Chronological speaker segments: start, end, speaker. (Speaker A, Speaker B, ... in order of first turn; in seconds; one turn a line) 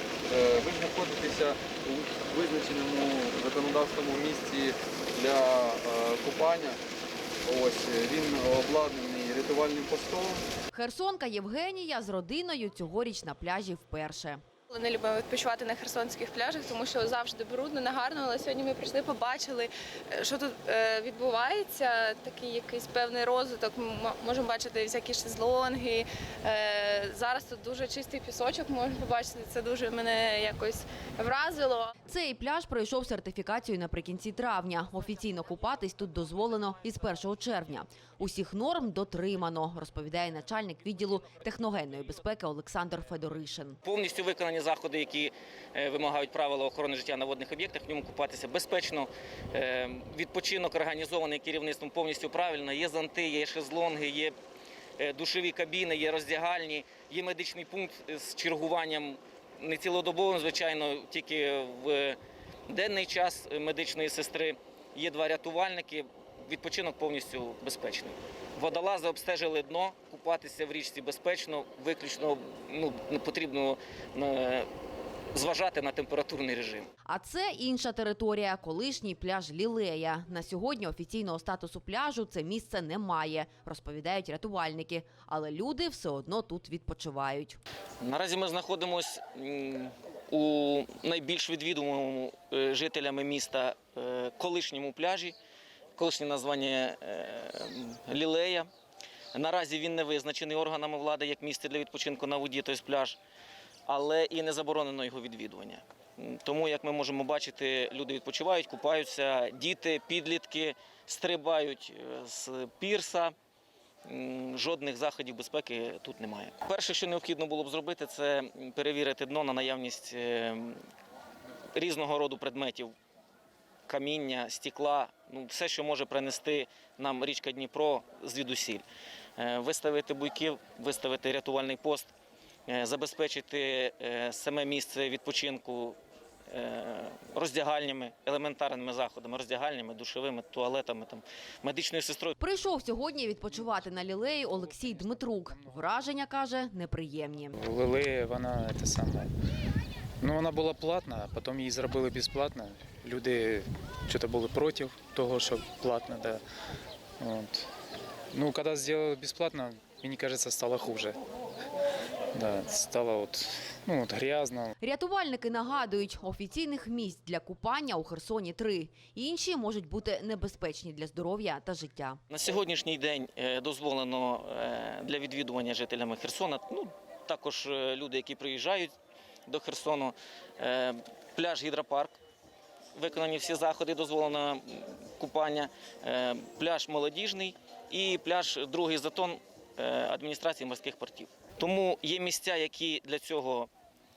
Speaker A: 0.3-6.8
Speaker A: 7.4-10.4
Speaker B: 10.7-14.4
Speaker C: 14.7-31.9
Speaker B: 32.1-43.8
Speaker D: 43.8-54.3
Speaker D: 55.0-74.7
Speaker D: 75.3-76.9
Speaker B: 77.0-87.6
Speaker D: 88.0-95.3
Speaker D: 96.0-98.7
Speaker D: 99.3-103.2
Speaker D: 103.9-113.3
Speaker D: 114.0-120.8
Speaker D: 121.8-122.9
Speaker D: 123.9-128.8
Speaker D: 129.4-132.1
Speaker D: 132.7-136.0
Speaker D: 136.5-142.4
Speaker B: 142.4-147.6
Speaker E: 143.5-145.8
Speaker E: 147.6-149.3
Speaker E: 150.2-156.4
Speaker E: 157.2-157.7
Speaker E: 158.3-161.2
Speaker E: 162.3-164.7
Speaker B: 164.8-172.2
Speaker D: 172.3-178.9
Speaker D: 179.5-182.1
Speaker D: 182.9-193.7